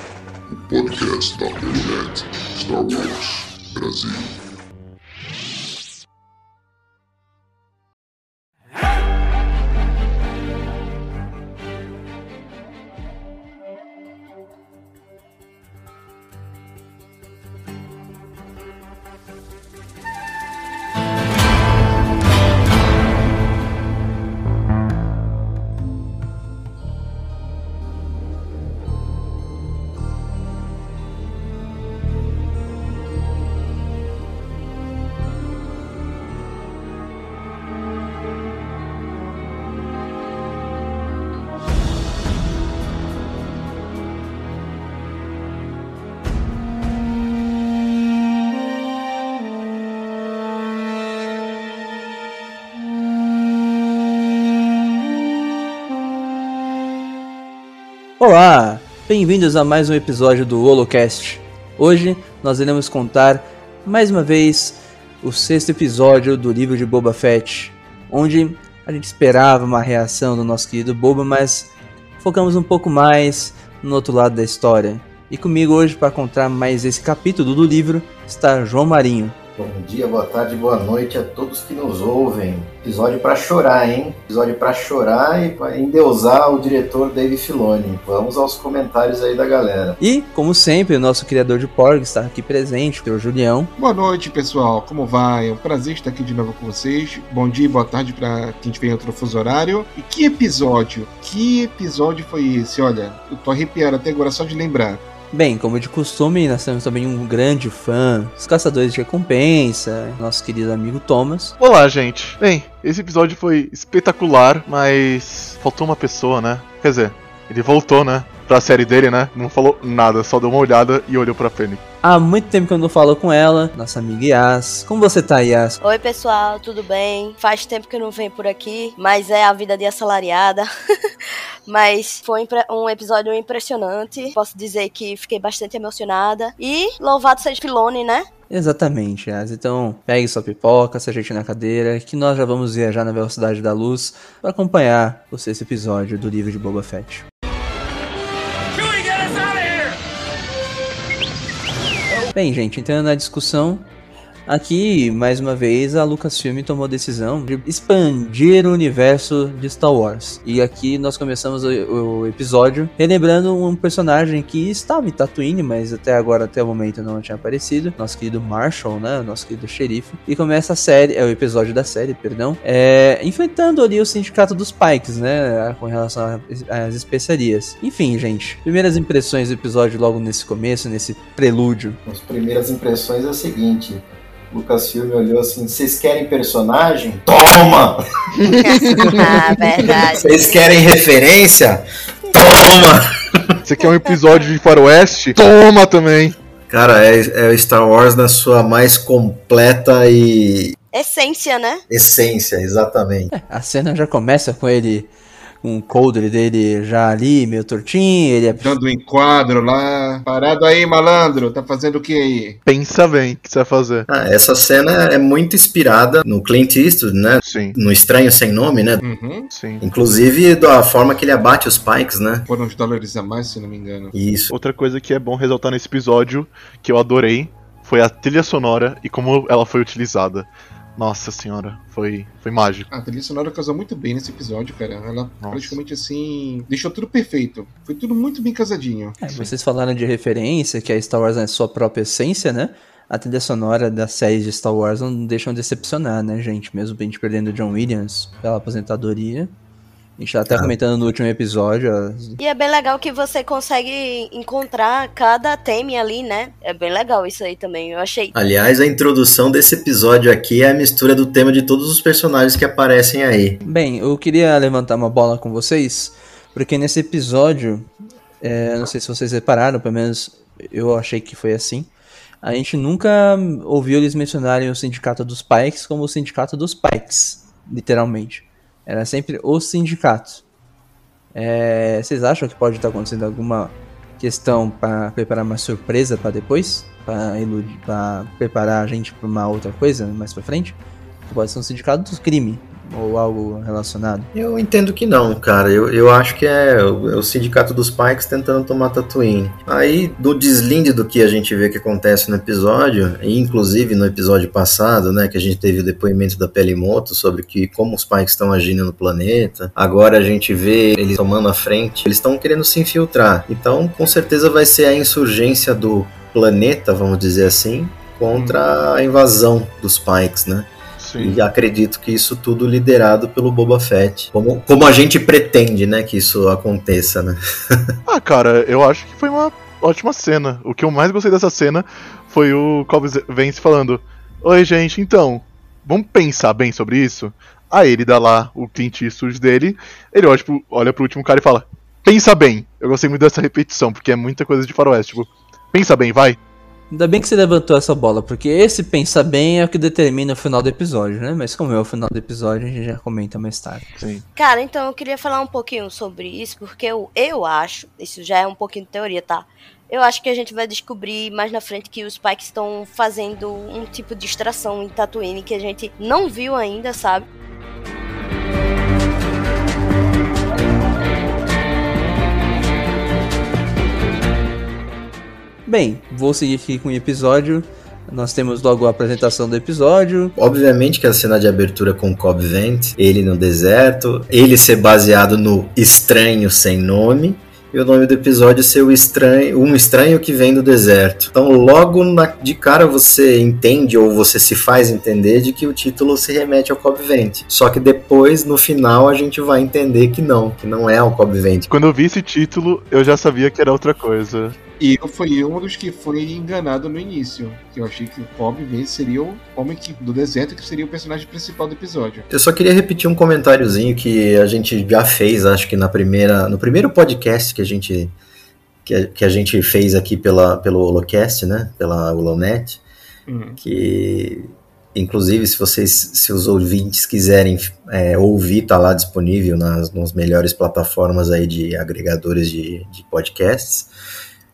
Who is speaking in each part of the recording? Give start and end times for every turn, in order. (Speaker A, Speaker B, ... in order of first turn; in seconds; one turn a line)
Speaker A: 0.5-4.4
Speaker B: 58.2-79.4
Speaker C: 79.6-90.0
Speaker B: 90.0-93.7
Speaker D: 93.8-105.0
Speaker B: 105.3-111.5
Speaker E: 111.6-121.8
Speaker B: 122.0-125.8
Speaker F: 125.8-130.7
Speaker F: 131.7-138.3
Speaker B: 138.5-147.3
Speaker B: 152.3-153.9
Speaker B: 154.5-182.0
Speaker C: 182.1-188.0
Speaker E: 188.4-189.4
Speaker F: 188.6-190.5
Speaker C: 189.8-193.6
Speaker E: 193.7-196.4
Speaker C: 196.7-200.8
Speaker F: 200.9-201.8
Speaker C: 201.9-203.3
Speaker B: 203.3-205.1
Speaker B: 205.6-208.8
Speaker D: 208.6-212.6
Speaker E: 212.7-214.1
Speaker C: 214.1-219.0
Speaker E: 217.4-217.8
Speaker D: 219.0-219.5
Speaker E: 219.5-219.8
Speaker C: 219.8-222.5
Speaker D: 222.5-224.1
Speaker C: 224.1-224.5
Speaker E: 224.5-232.9
Speaker D: 232.9-239.5
Speaker E: 235.4-235.8
Speaker B: 239.2-249.5
Speaker B: 250.2-252.4
Speaker F: 252.4-258.3
Speaker C: 258.3-263.6
Speaker B: 263.6-267.9
Speaker B: 268.4-271.9
Speaker B: 272.4-280.4
Speaker B: 281.3-294.3
Speaker C: 294.3-327.9
Speaker D: 318.3-318.6
Speaker E: 321.0-321.4
Speaker E: 328.1-346.4
Speaker B: 346.9-353.9
Speaker E: 354.0-354.2
Speaker F: 354.4-367.3
Speaker B: 375.7-380.4
Speaker C: 380.4-401.7
Speaker E: 401.7-404.6
Speaker D: 404.8-412.3
Speaker C: 412.3-418.1
Speaker C: 418.9-422.8
Speaker D: 423.3-423.6
Speaker C: 423.6-433.9